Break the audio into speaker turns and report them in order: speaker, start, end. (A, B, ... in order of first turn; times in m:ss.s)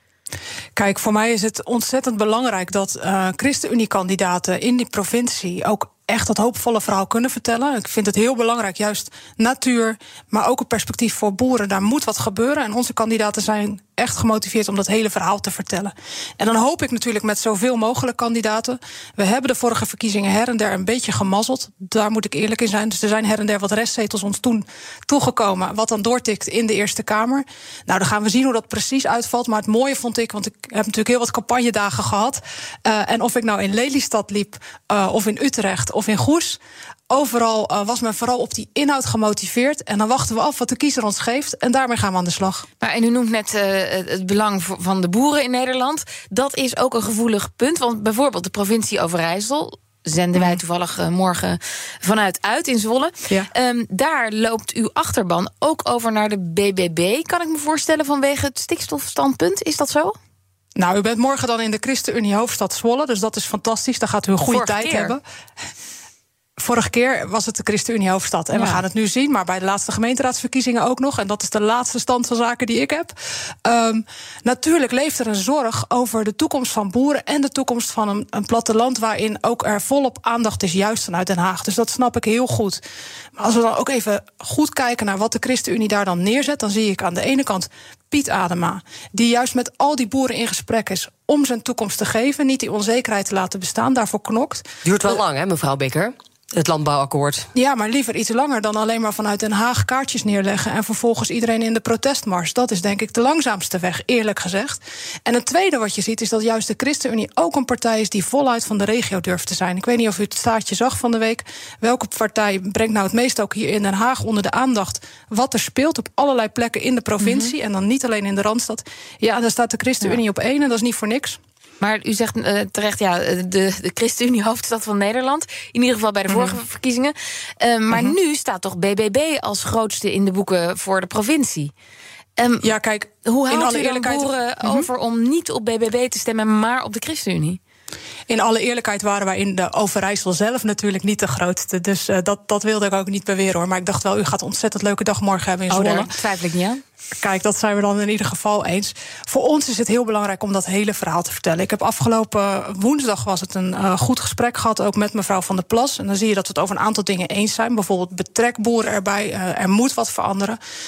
0:00.8-0:42.6 A
0:42.8-1:00.2 B
1:00.8-1:05.2 A
1:04.4-1:05.2 B
1:06.6-1:13.1 A
1:08.5-1:08.8 B
1:13.6-1:22.8 A
1:23.4-1:35.2 A
1:34.8-1:37.5 C
1:37.5-2:01.4 A
1:57.2-1:57.5 B
2:01.8-2:11.7 B
2:06.3-2:06.6 A
2:12.4-2:12.7 B
2:12.6-2:14.9 A
2:13.3-2:17.6 B
2:18.3-2:26.1 A
2:25.7-2:26.8 B
2:27.2-2:40.6 A